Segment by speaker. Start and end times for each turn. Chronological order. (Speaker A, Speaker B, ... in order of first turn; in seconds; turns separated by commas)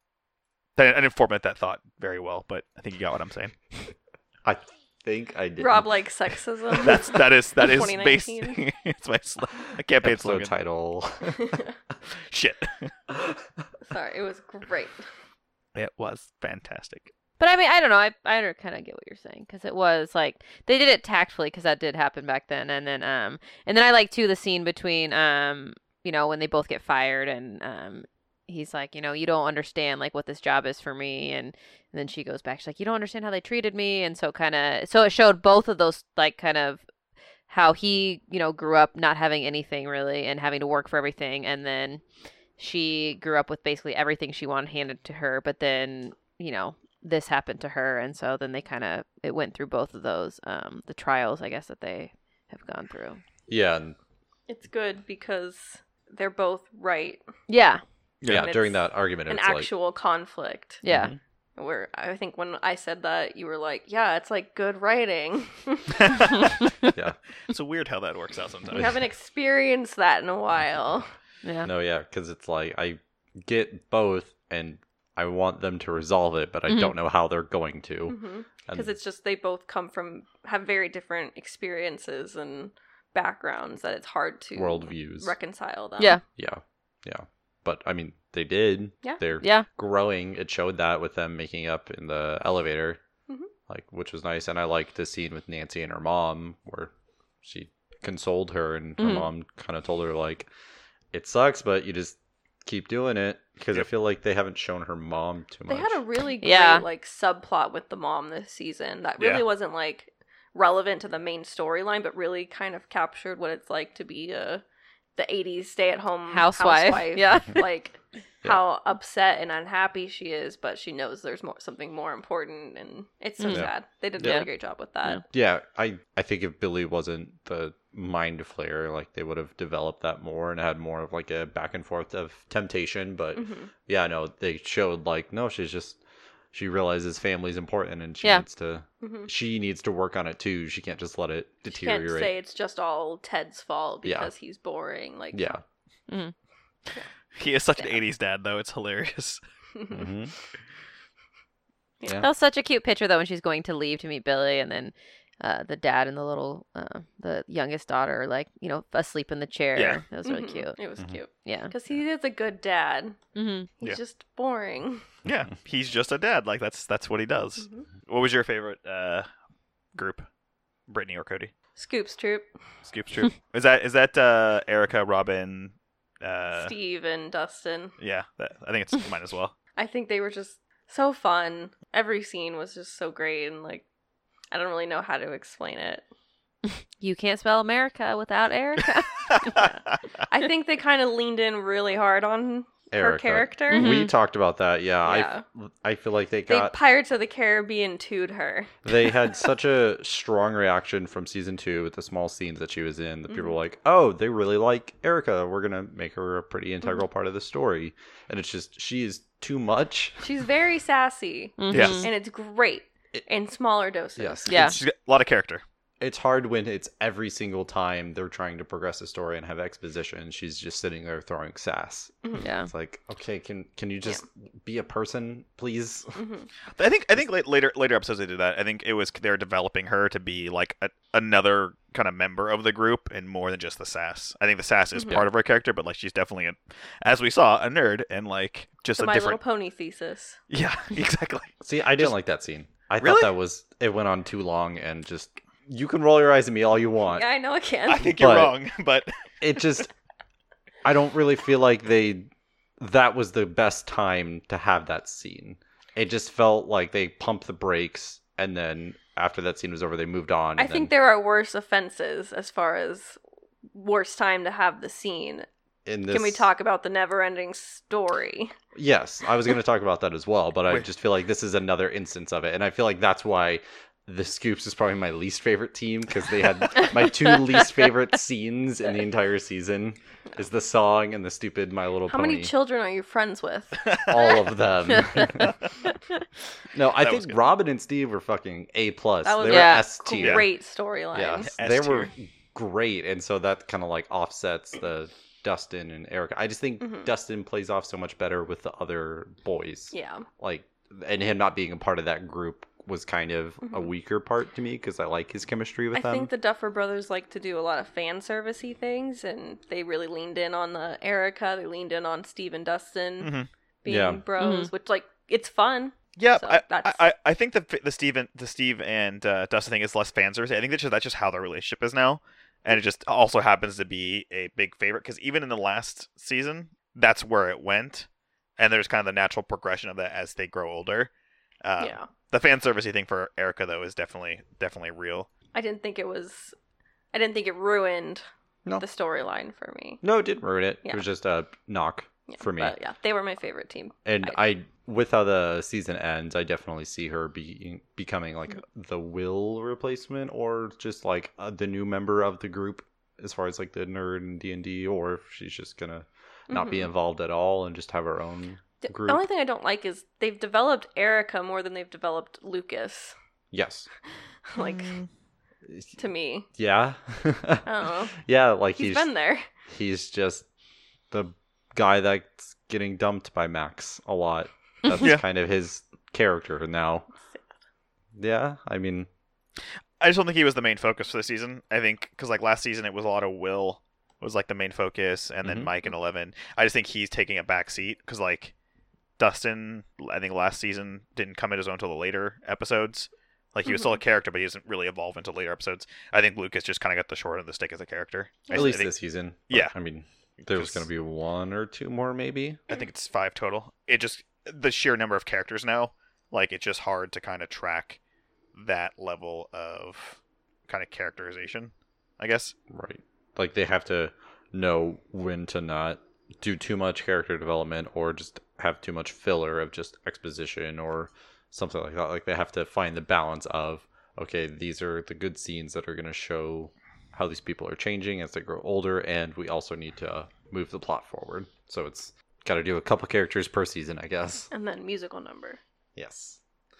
Speaker A: 0.8-3.8, Speaker B: 4.4-5.9, Speaker C: 5.6-8.6, Speaker A: 6.7-10.5, Speaker B: 10.0-11.6, Speaker A: 12.3-12.9, Speaker C: 13.8-15.0, Speaker A: 15.7-17.1, Speaker D: 17.4-36.8, Speaker D: 37.5-42.0, Speaker D: 42.6-53.2, Speaker B: 53.5-54.0, Speaker C: 54.5-57.2, Speaker D: 57.5-57.8, Speaker A: 58.2-58.5, Speaker B: 58.2-59.7, Speaker C: 58.3-60.8, Speaker D: 60.8-61.1, Speaker B: 60.9-61.2, Speaker C: 61.5-66.4, Speaker A: 65.9-66.6, Speaker A: 67.5-68.9, Speaker C: 68.7-71.1, Speaker D: 71.4-71.7, Speaker B: 71.6-78.9, Speaker D: 76.7-76.9, Speaker C: 78.1-86.2, Speaker B: 84.5-85.3, Speaker B: 86.4-93.0, Speaker D: 89.4-89.7, Speaker B: 93.7-96.9, Speaker B: 97.4-100.5, Speaker D: 99.0-99.3, Speaker B: 101.1-106.0, Speaker C: 105.7-114.6, Speaker D: 106.4-106.8, Speaker A: 109.2-109.4, Speaker C: 115.2-125.2, Speaker D: 116.3-117.6, Speaker D: 123.4-124.5, Speaker B: 123.5-124.5, Speaker B: 125.3-136.0, Speaker C: 133.3-133.7, Speaker B: 136.5-142.3, Speaker C: 139.0-139.3, Speaker C: 141.7-145.6, Speaker B: 144.0-144.3, Speaker B: 145.3-145.6, Speaker A: 147.3-149.4, Speaker C: 149.7-150.1, Speaker B: 149.9-150.3, Speaker B: 152.0-152.3, Speaker D: 152.2-160.8, Speaker A: 159.8-160.0, Speaker C: 160.2-163.2, Speaker D: 161.4-161.7, Speaker D: 163.3-163.7, Speaker C: 163.8-165.0, Speaker A: 165.2-169.3, Speaker C: 167.6-167.9, Speaker A: 169.9-170.3, Speaker A: 170.9-171.5, Speaker C: 171.8-172.5, Speaker A: 172.8-176.7, Speaker C: 176.5-177.9, Speaker A: 178.0-179.5, Speaker C: 179.8-183.8, Speaker C: 184.5-186.1, Speaker D: 187.0-189.3, Speaker A: 189.4-189.6, Speaker C: 189.4-194.0, Speaker B: 192.9-196.7, Speaker D: 193.7-194.1, Speaker C: 195.0-195.4, Speaker C: 196.5-198.8, Speaker B: 198.8-210.2, Speaker C: 210.2-214.7, Speaker D: 211.6-212.1, Speaker A: 211.7-212.1, Speaker B: 214.2-214.8, Speaker D: 214.5-214.8, Speaker A: 214.5-215.6, Speaker B: 216.0-226.2, Speaker D: 222.4-222.7, Speaker C: 226.2-226.5, Speaker A: 226.8-239.4, Speaker C: 234.9-235.2, Speaker C: 239.0-240.4, Speaker A: 240.5-242.1, Speaker B: 241.6-247.3, Speaker A: 243.0-243.3, Speaker C: 247.1-248.2, Speaker A: 247.9-249.8, Speaker B: 248.1-248.6, Speaker B: 249.4-249.9, Speaker B: 250.8-252.3, Speaker B: 252.8-260.9, Speaker C: 260.6-263.2, Speaker C: 263.7-265.5, Speaker B: 265.9-266.4, Speaker C: 266.1-268.5, Speaker B: 268.7-282.5, Speaker C: 282.1-284.4, Speaker B: 284.0-285.6, Speaker B: 286.7-290.5, Speaker A: 286.9-287.4, Speaker C: 289.2-291.5, Speaker D: 289.4-289.9, Speaker A: 290.1-290.4, Speaker B: 291.1-306.3, Speaker A: 291.4-292.1, Speaker C: 296.8-297.1, Speaker C: 299.9-300.2, Speaker C: 305.9-317.0, Speaker A: 313.2-313.5, Speaker B: 313.9-314.2, Speaker D: 314.4-314.7, Speaker A: 316.1-328.1, Speaker A: 328.6-331.1, Speaker A: 331.6-335.3, Speaker C: 331.8-332.1, Speaker C: 335.5-336.5, Speaker C: 337.1-338.2, Speaker C: 338.8-340.0, Speaker B: 340.0-342.8, Speaker C: 342.3-344.4, Speaker B: 344.0-359.2, Speaker C: 356.5-356.9, Speaker C: 358.8-363.1, Speaker B: 363.5-363.9, Speaker C: 364.5-365.0, Speaker A: 364.6-365.1, Speaker B: 365.7-366.0, Speaker C: 366.0-366.5, Speaker B: 366.6-369.1, Speaker C: 367.6-368.1, Speaker C: 368.7-369.4, Speaker B: 369.7-370.5, Speaker B: 371.1-377.1, Speaker A: 375.0-375.2, Speaker B: 378.1-379.1, Speaker A: 380.0-388.5, Speaker B: 385.4-385.7, Speaker A: 389.2-398.9, Speaker C: 398.5-398.8, Speaker B: 398.5-402.6, Speaker A: 399.5-399.7, Speaker A: 400.5-400.8, Speaker A: 402.7-408.0, Speaker A: 408.5-412.5, Speaker B: 412.7-434.5, Speaker C: 434.5-435.6, Speaker B: 435.9-436.4